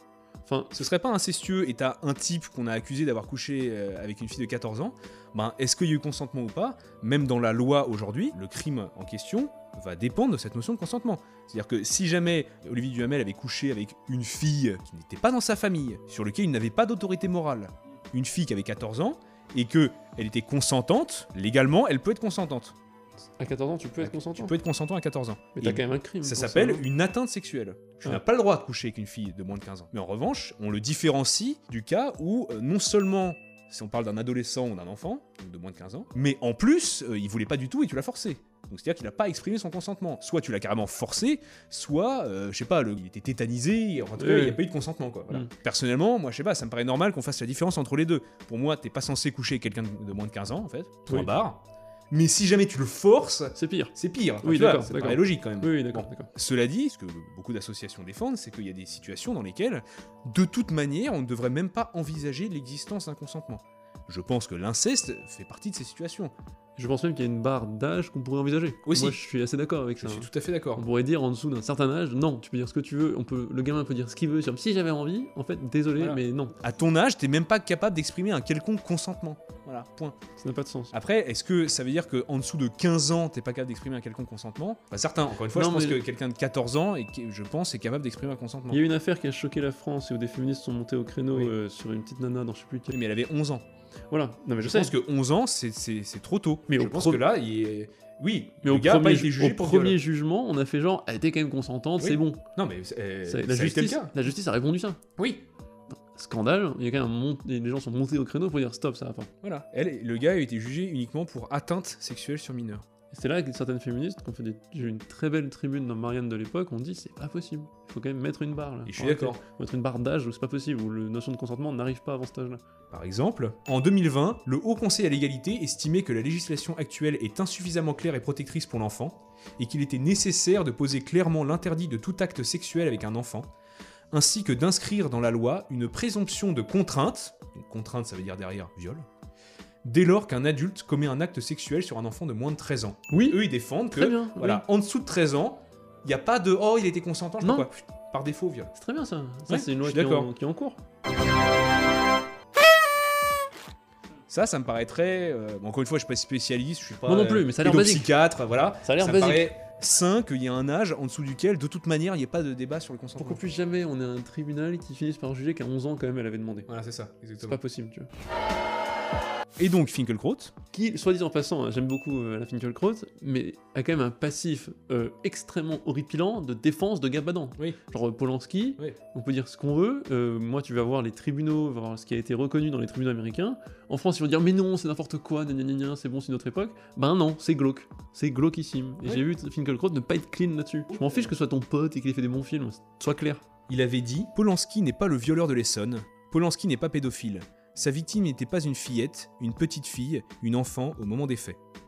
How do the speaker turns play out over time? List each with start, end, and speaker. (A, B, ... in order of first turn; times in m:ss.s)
0:00.4-0:00.7 A
0:00.7-0:22.8 B
0:23.4-0:24.6 A
0:24.0-0:51.6 B
0:25.6-0:26.9 A
0:44.2-0:44.6 A
0:51.1-0:51.3 A
0:52.1-1:06.3 B
0:53.5-0:56.3 A
1:06.8-1:16.6 A
1:08.8-1:09.2 B
1:10.0-1:10.8 B
1:16.0-1:20.1 B
1:20.4-1:20.9 A
1:20.9-1:28.8 B
1:25.5-1:26.0 A
1:28.7-1:33.0 A
1:32.9-1:33.6 B
1:34.1-1:34.9 A
1:34.6-1:40.0 B
1:36.7-1:37.2 A
1:38.6-1:42.4 A
1:42.0-1:44.1 B
1:43.2-1:45.0 A
1:45.2-1:45.4 B
1:46.1-1:49.3 A
1:49.4-1:52.8 B
1:53.1-2:02.6 A
1:58.9-1:59.4 B
2:02.9-2:13.4 B
2:14.1-2:19.0 B
2:19.8-2:28.7 B
2:23.1-2:24.6 A
2:27.4-2:27.7 A
2:28.7-2:30.8 A
2:29.5-2:30.3 B
2:34.3-2:43.4 B
2:37.0-2:38.1 A
2:38.8-2:39.5 A
2:43.2-2:46.7 A
2:46.7-2:47.6 B
2:47.4-2:48.1 A
2:49.6-2:50.5 B
2:50.7-3:13.4 A
3:10.9-3:11.3 B
3:13.7-3:21.6 B